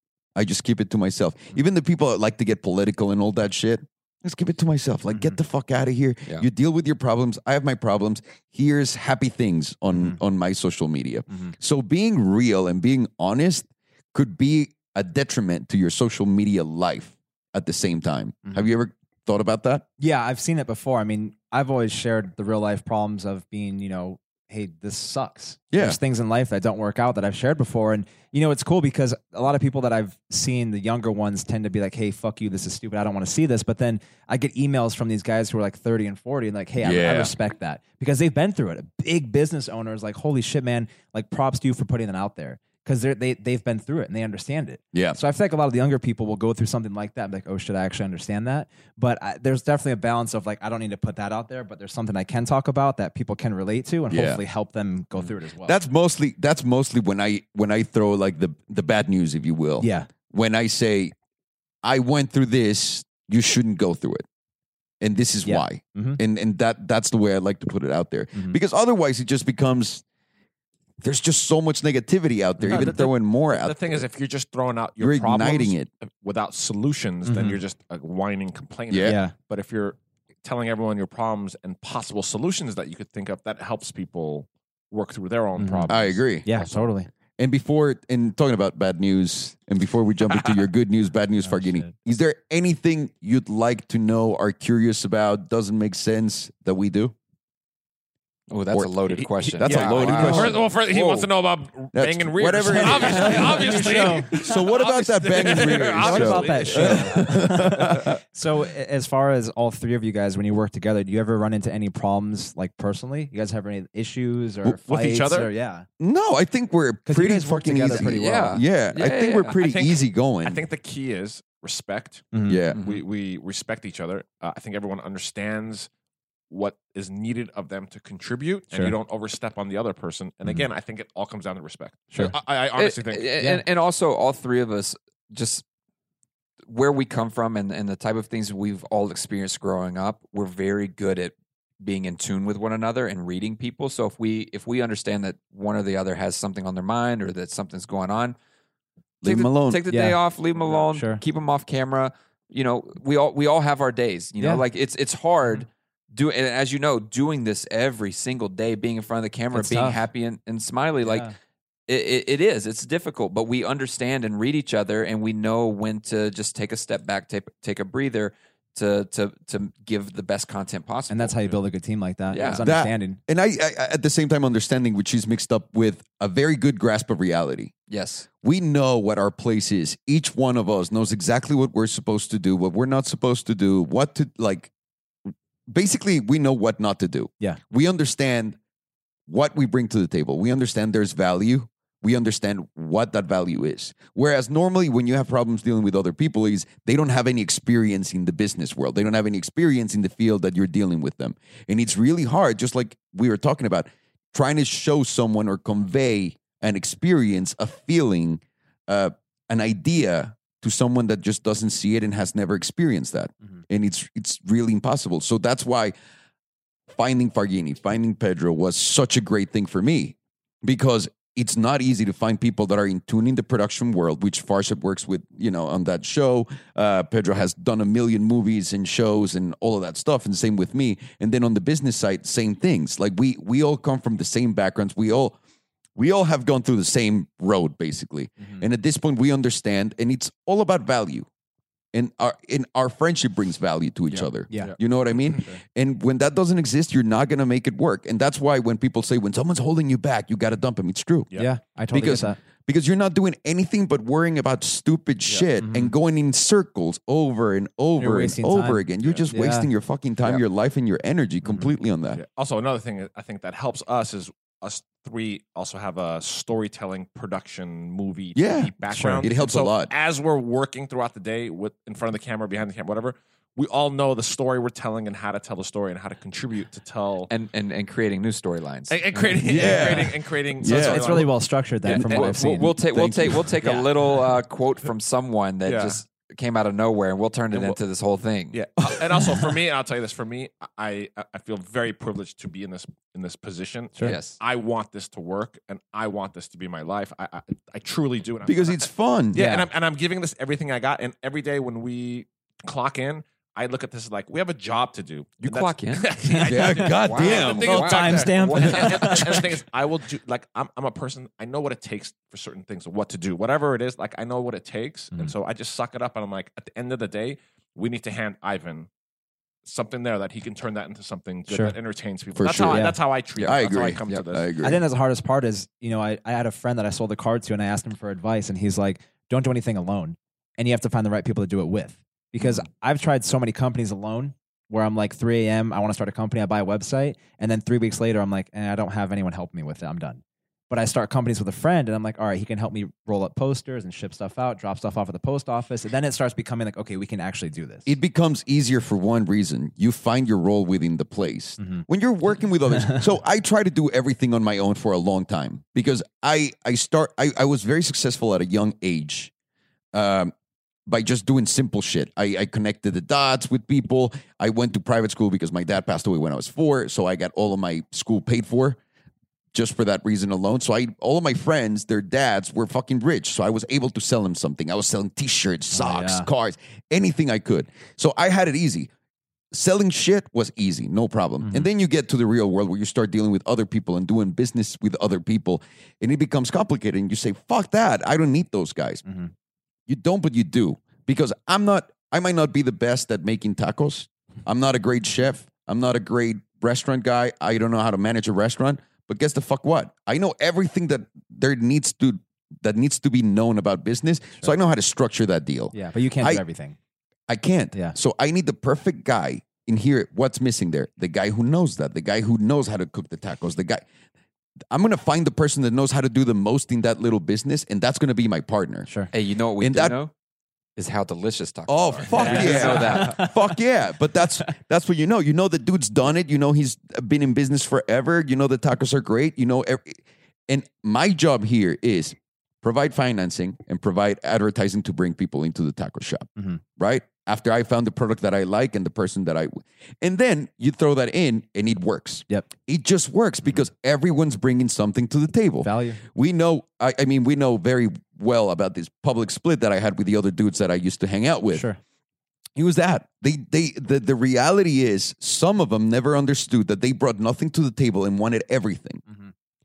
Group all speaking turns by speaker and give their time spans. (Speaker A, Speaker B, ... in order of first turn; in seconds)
Speaker A: 0.3-19.9, 25.7-26.0, 36.8-37.3, 44.9-45.2, 54.1-54.4, 55.6-61.1, 61.8-64.2, 65.0-70.0, 71.0-74.0, 75.0-75.9, 78.9-79.2, 85.9-86.5, 87.4-97.1, 98.7-100.7, 101.9-108.2, 116.0-120.6, 122.5-122.8, 149.2-149.8, 172.6-177.7, 178.4-184.7, 185.7-188.6, 189.3-215.9, 216.9-235.4, 236.0-241.3, 241.9-251.3, 251.9-262.2, 268.4-269.9, 279.4-281.3, 298.4-299.4, 306.5-307.9, 322.4-324.8, 347.9-359.3, 359.9-360.3, 360.9-368.8, 369.5-378.9, 379.5-389.0, 389.9-406.4, 407.3-413.9, 414.7-418.9, 419.6-420.0, 421.7-451.7, 452.6-459.0
Speaker B: 5.1-5.4, 9.9-10.2, 20.0-55.8, 59.8-60.1, 65.5-66.2, 72.6-73.0, 77.2-77.6, 79.0-79.3, 85.6-85.9, 86.4-87.1, 91.4-91.9, 103.2-104.4, 105.6-115.9, 117.1-118.6, 122.3-122.6, 149.9-151.2, 159.5-160.0, 161.1-161.3, 171.1-173.2, 244.5-244.8, 251.3-252.4, 255.6-255.9, 258.0-259.7, 268.9-269.3, 279.6-280.0, 280.6-283.9, 299.3-299.7, 306.3-307.0, 307.6-309.5, 321.5-321.8, 322.5-323.0, 324.6-347.9, 351.6-351.9, 352.8-353.0, 375.7-376.3, 381.4-381.7, 405.7-406.8, 422.1-423.5, 445.6-446.0, 451.5-451.8
Speaker C: 72.7-86.8, 99.6-108.0, 114.9-115.5, 119.5-125.9, 126.5-133.3, 262.1-277.3, 278.9-281.3, 281.9-282.3, 285.6-286.0, 287.5-287.8, 288.5-318.9, 319.6-324.5
Speaker D: 98.5-101.3, 118.0-119.6, 122.8-123.0, 132.8-135.6, 136.7-148.4, 149.2-161.3, 161.9-171.6, 172.3-172.7, 177.9-178.3, 244.1-244.7, 277.3-279.9, 281.8-288.6, 294.0-294.4, 305.4-306.1, 307.0-309.4, 323.4-324.2, 419.1-420.1, 420.8-423.3